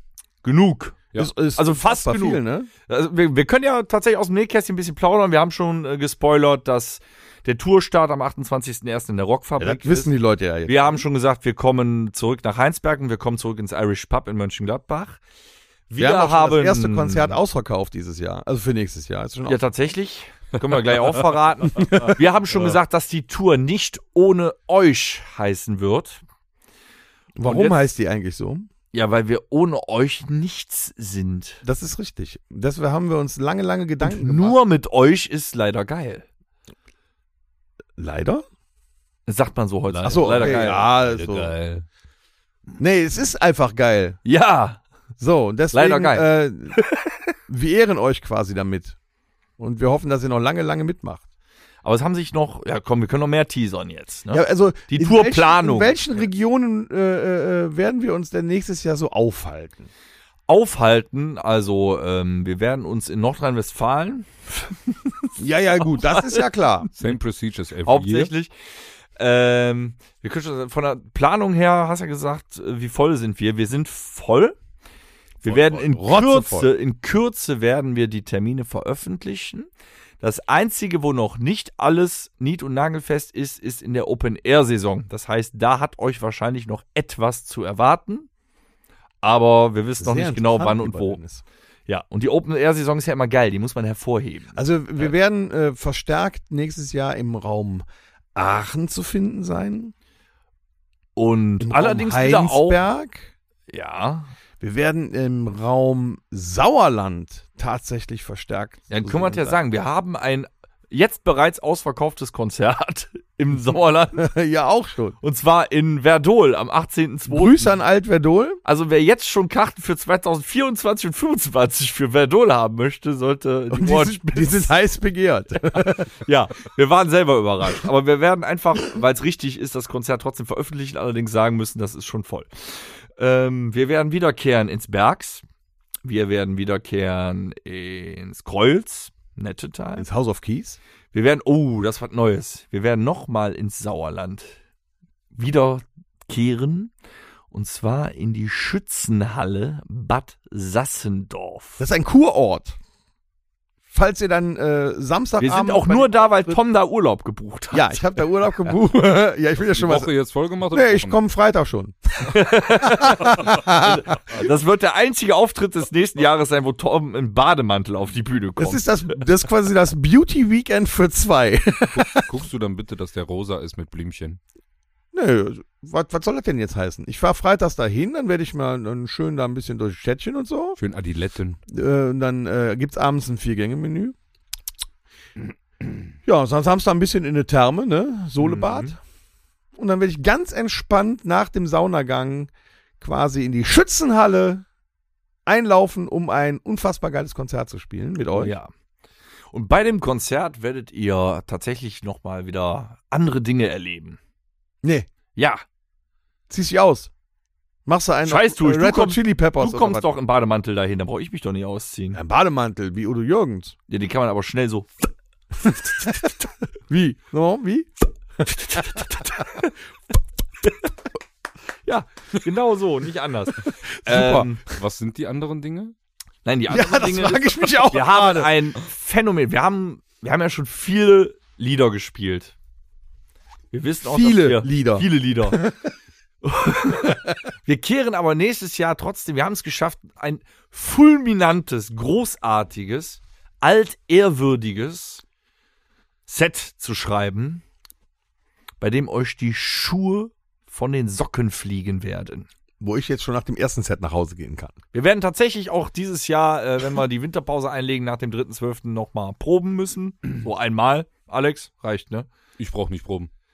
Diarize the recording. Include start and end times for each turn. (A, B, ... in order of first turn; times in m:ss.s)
0:00.4-0:10.1 A
0:01.2-0:02.7 B
0:09.6-0:11.0 B
0:10.6-0:15.2 A
0:15.9-0:17.4 A
0:16.0-0:19.6 B
0:19.4-0:26.2 A
0:21.8-0:22.2 B
0:27.4-0:28.7 B
0:27.4-0:27.8 A
0:28.9-0:31.6 A
0:31.6-0:34.6 B
0:34.0-0:36.2 A
0:38.0-0:38.4 B
0:39.3-0:41.0 A
0:39.9-0:41.8 C
0:40.0-0:41.5 B
0:42.8-0:44.2 B
0:44.2-0:44.8 A
0:45.2-0:46.8 B
0:45.7-0:47.2 A
0:47.5-0:49.0 B
0:49.6-0:51.2 B
0:51.8-0:56.1 A
0:54.3-0:59.9 B
1:00.5-1:05.4 A
1:05.4-1:06.9 B
1:05.9-1:06.4 A
1:07.0-1:08.3 C
1:07.8-1:08.5 A
1:09.2-1:14.6 A
1:15.4-1:16.0 C
1:15.4-1:19.7 A
1:16.0-1:16.7 B
1:20.2-1:28.3 A
1:29.2-1:31.2 A
1:30.0-1:31.4 B
1:31.9-1:35.1 A
1:34.5-1:39.9 B
1:41.2-1:42.8 A
1:41.6-1:43.3 B
1:43.7-1:44.3 A
1:44.6-1:49.6 B
1:48.9-1:54.3 A
1:54.2-1:55.2 B
1:55.2-1:57.7 A
1:57.3-1:58.6 B
1:58.6-2:04.7 A
2:03.7-2:06.1 B
2:05.9-2:15.4 A
2:16.0-2:20.1 A
2:20.0-2:20.8 B
2:21.1-2:24.6 A
2:25.3-2:26.9 A
2:27.5-2:31.8 A
2:31.8-2:32.8 B
2:33.9-2:36.6 B
2:35.4-2:38.2 A
2:37.7-2:40.1 B
2:39.6-2:41.2 C
2:40.7-2:44.4 B
2:42.2-2:48.9 A
2:48.6-2:52.3 B
2:51.9-2:54.4 C
2:55.1-3:00.8 B
3:00.8-3:01.6 C
3:01.7-3:04.1 B
3:06.2-3:09.0 B
3:08.4-3:08.9 A
3:09.8-3:14.6 B
3:15.4-3:18.5 B
3:18.3-3:18.7 A
3:19.5-3:24.2 A
3:25.4-3:25.6 A
3:26.5-3:27.1 B
3:27.8-3:30.1 B
3:28.2-3:32.2 A
3:32.1-3:33.7 B
3:33.9-3:35.1 A
3:35.6-3:36.1 A
3:35.8-3:36.2 B
3:36.9-3:39.1 B
3:38.5-3:39.7 A
3:41.8-3:44.6 A
3:43.6-3:44.5 B
3:44.6-3:45.9 C
3:46.4-3:52.5 A
3:46.7-3:48.5 B
3:53.7-3:55.6 A
3:54.0-3:55.9 B
3:56.4-4:05.2 A
4:06.3-4:07.6 A
4:08.8-4:12.5 A
4:12.8-4:14.8 B
4:14.9-4:22.3 A
4:22.6-4:23.3 C